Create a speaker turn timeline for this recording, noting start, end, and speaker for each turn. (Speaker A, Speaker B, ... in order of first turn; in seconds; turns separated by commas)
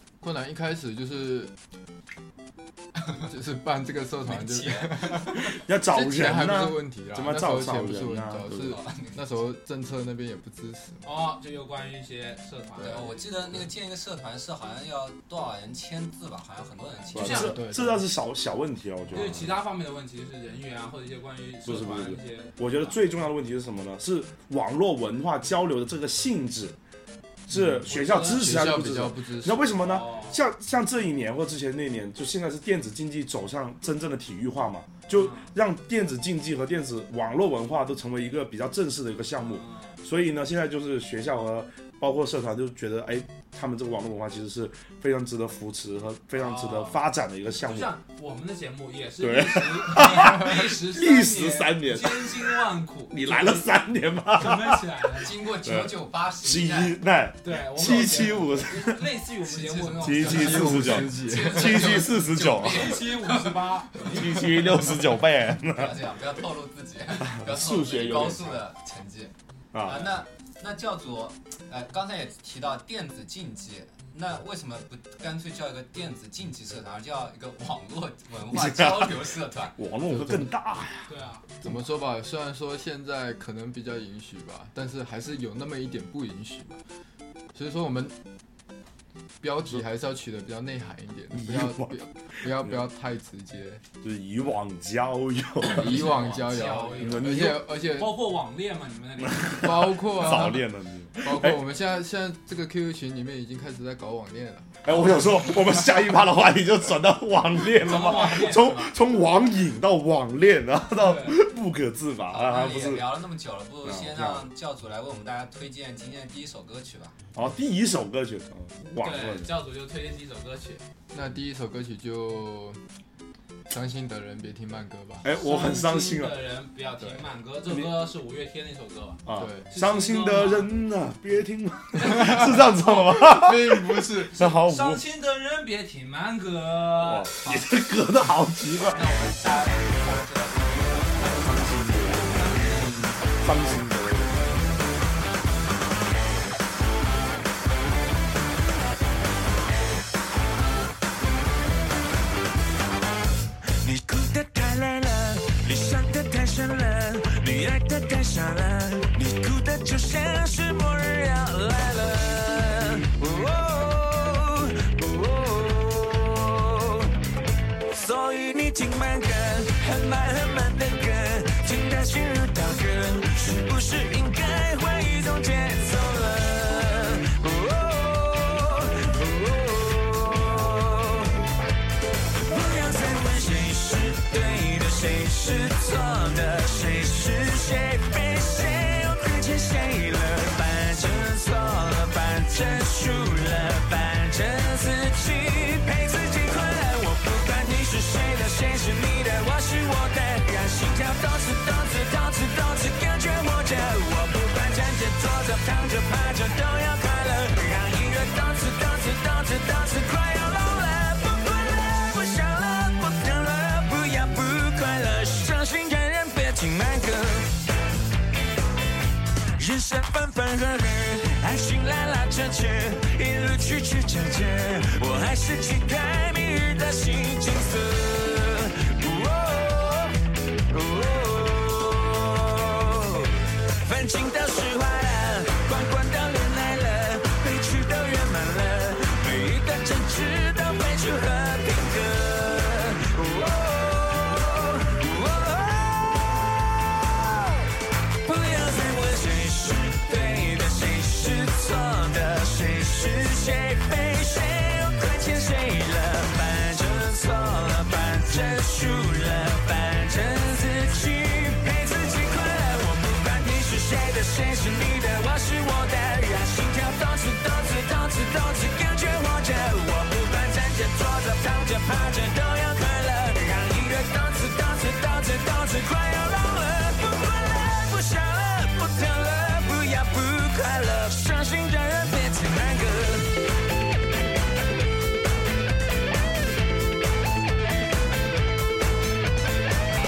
Speaker A: 0.2-1.5, Speaker A: 3.2-11.1, Speaker B: 4.2-5.4, Speaker C: 5.3-8.8, Speaker B: 8.6-9.3, Speaker D: 11.0-13.2, Speaker B: 12.8-17.5, Speaker D: 17.1-17.6, Speaker C: 17.1-19.6, Speaker A: 17.2-18.1, Speaker D: 19.1-23.0, Speaker C: 21.6-26.8, Speaker C: 27.5-48.0, Speaker A: 27.5-29.8, Speaker D: 27.9-28.6, Speaker D: 29.8-30.4, Speaker D: 35.1-35.5, Speaker D: 39.4-40.0, Speaker D: 46.3-47.0, Speaker D: 47.6-53.7, Speaker C: 49.2-59.1, Speaker D: 54.3-55.5, Speaker B: 55.2-57.0, Speaker D: 57.4-61.0, Speaker B: 59.4-64.1, Speaker C: 60.0-63.0, Speaker A: 60.2-62.0, Speaker D: 62.5-64.5, Speaker C: 64.0-66.0, Speaker B: 65.7-69.3, Speaker C: 67.2-68.6, Speaker C: 69.7-70.2, Speaker B: 69.8-79.8, Speaker C: 78.5-81.1, Speaker A: 80.1-80.5, Speaker D: 81.1-81.5, Speaker A: 81.6-86.8, Speaker A: 87.5-88.2, Speaker A: 89.4-93.8, Speaker C: 91.3-92.8, Speaker C: 94.0-96.2, Speaker A: 95.6-98.3, Speaker B: 95.8-97.2, Speaker D: 96.3-100.0, Speaker C: 97.0-97.7, Speaker C: 99.4-101.6, Speaker A: 99.5-100.6, Speaker A: 101.2-104.7, Speaker C: 104.8-113.2, Speaker D: 107.7-108.9, Speaker B: 108.0-108.7, Speaker D: 111.0-111.4, Speaker B: 112.3-117.2, Speaker C: 113.8-114.5, Speaker C: 117.3-119.5, Speaker D: 119.0-120.8, Speaker A: 121.1-122.8, Speaker A: 123.7-125.3, Speaker C: 125.2-126.3, Speaker D: 125.3-130.7, Speaker C: 129.3-135.0, Speaker A: 129.3-129.7, Speaker A: 132.0-134.5, Speaker D: 134.3-137.4, Speaker C: 137.0-139.1, Speaker D: 138.9-143.2, Speaker B: 138.9-141.7, Speaker C: 141.4-142.5, Speaker C: 143.4-144.5, Speaker E: 153.7-167.1, Speaker E: 167.9-181.3, Speaker E: 182.4-217.6, Speaker E: 219.6-230.2, Speaker E: 230.7-246.5, Speaker E: 248.2-283.4